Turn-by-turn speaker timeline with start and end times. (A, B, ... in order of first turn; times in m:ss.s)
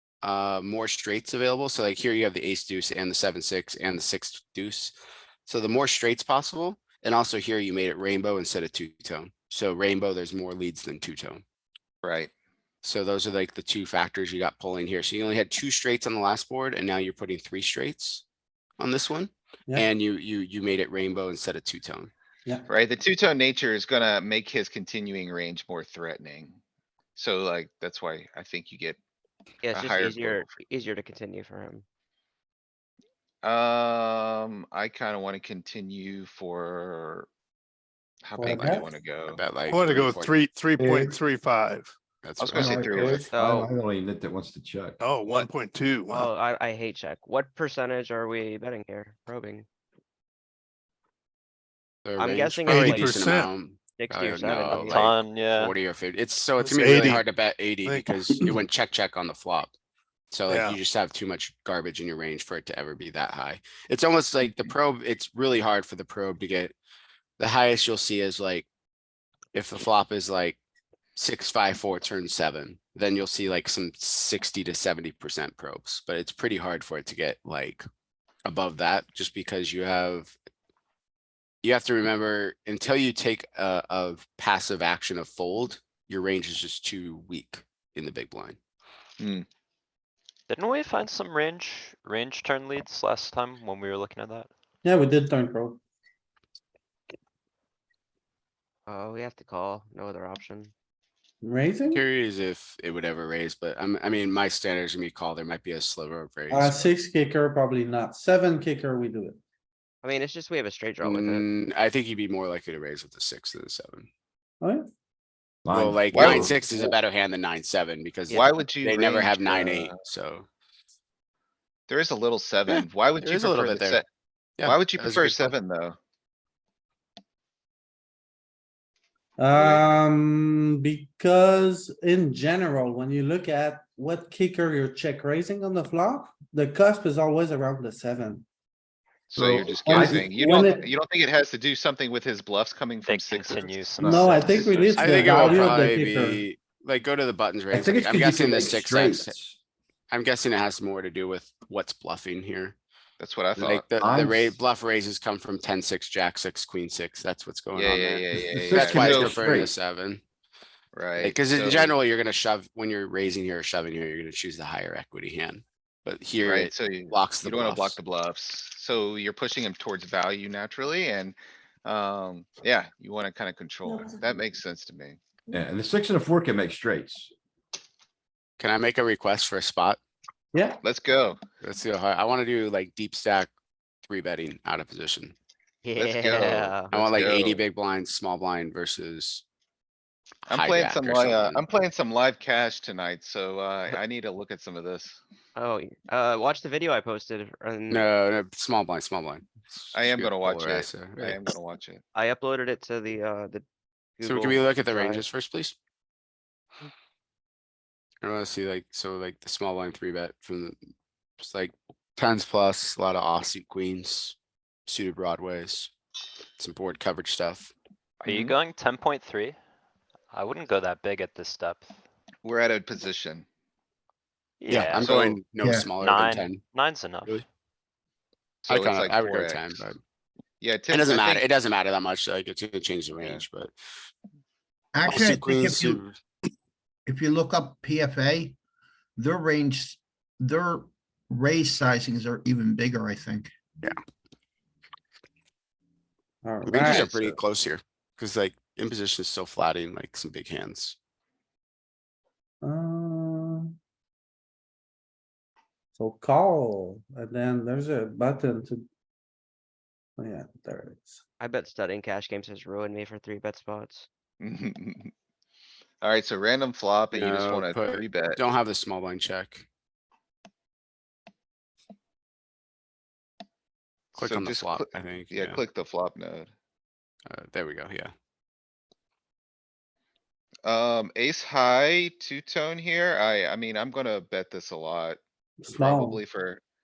0:00.2-0:05.0 A
0:05.5-0:11.4 A
0:12.0-0:12.3 B
0:12.8-0:18.2 A
0:18.8-0:22.1 A
0:22.7-0:26.6 B
0:27.2-0:29.0 B
0:29.6-0:31.8 C
0:29.7-0:30.6 B
0:33.4-0:37.3 B
0:38.2-0:39.4 B
0:38.4-0:38.9 D
0:39.3-0:40.4 A
0:39.6-0:42.0 E
0:40.8-0:41.2 F
0:42.2-0:43.2 A
0:42.4-0:43.3 B
0:42.5-0:43.3 F
0:43.3-0:43.7 C
0:43.3-0:45.0 G
0:45.0-0:46.3 E
0:46.1-0:49.7 C
0:52.0-0:59.7 A
0:52.2-0:53.3 C
0:52.7-0:53.6 E
0:54.0-0:55.1 C
0:54.9-0:55.8 H
0:56.6-0:58.6 E
1:00.3-1:06.7 A
1:00.5-1:00.8 E
1:07.4-1:08.7 A
1:09.5-1:10.6 A
1:11.2-1:17.8 A
1:18.4-1:20.3 A
1:21.6-1:28.6 A
1:29.2-1:29.5 B
1:30.5-1:34.5 H
1:34.8-1:35.8 D
1:38.9-1:40.7 C
1:41.4-1:42.0 D
1:41.9-1:46.9 A
1:46.5-1:49.4 D
1:50.0-1:51.5 C
1:51.0-1:54.1 A
1:54.6-1:54.9 D
1:55.6-1:56.6 G
1:55.7-2:00.5 A
1:56.1-1:56.5 B
1:58.3-1:58.6 C
1:58.3-2:00.0 B
2:01.9-2:04.1 B
2:02.7-2:04.0 A
2:04.6-2:05.5 A
2:04.6-2:06.0 B
2:09.4-2:18.4 D
2:19.3-2:23.9 B
2:19.4-2:20.4 G
2:19.8-2:20.9 D
2:23.0-2:24.7 H
2:24.0-2:25.5 G
2:24.1-2:26.5 D
2:25.0-2:29.4 A
2:27.7-2:29.6 G
2:30.1-2:32.8 A
2:33.2-2:33.8 B
2:33.6-2:34.6 G
2:33.6-2:40.2 A
2:37.7-2:39.4 B
2:38.6-2:39.7 G
2:40.9-2:41.9 B
2:41.2-2:48.0 A
2:46.4-2:55.2 B
2:55.5-2:57.3 G
2:58.6-3:00.0 A
3:00.5-3:00.8 D
3:00.8-3:01.4 B
3:01.6-3:03.5 A
3:04.1-3:05.4 A
3:05.8-3:07.4 C
3:06.0-3:07.6 B
3:06.9-3:09.4 A
3:10.5-3:11.6 A
3:10.5-3:15.2 B
3:15.6-3:18.1 C
3:17.9-3:21.4 A
3:19.9-3:22.0 B
3:22.2-3:23.6 C
3:24.2-3:25.3 C
3:24.2-3:25.8 A
3:28.2-3:30.8 A
3:31.4-3:34.4 A
3:34.9-3:35.9 A
3:36.6-3:37.7 A
3:38.2-3:39.6 H
3:40.3-3:42.0 H
3:42.4-3:43.4 B
3:44.6-3:45.2 H
3:44.7-3:46.6 A
3:45.0-3:45.4 B
3:45.6-3:45.9 F
3:46.0-3:47.4 H
3:48.7-3:49.9 B
3:48.7-3:50.0 A
3:50.6-3:51.4 B
3:50.9-3:53.7 A
3:54.9-3:56.0 F
3:55.1-3:56.2 A
3:57.1-3:58.6 F
3:59.2-4:03.5 F
4:06.4-4:07.1 D
4:06.6-4:11.0 A
4:07.0-4:07.4 F
4:12.6-4:13.7 D
4:16.0-4:18.9 D
4:20.2-4:21.2 D
4:21.4-4:24.1 C
4:24.4-4:25.1 B
4:26.0-4:28.4 B
4:27.1-4:29.7 A
4:34.1-4:36.5 B
4:34.2-4:35.6 A
4:37.3-4:38.1 A
4:40.6-4:46.6 B
4:45.6-4:46.2 D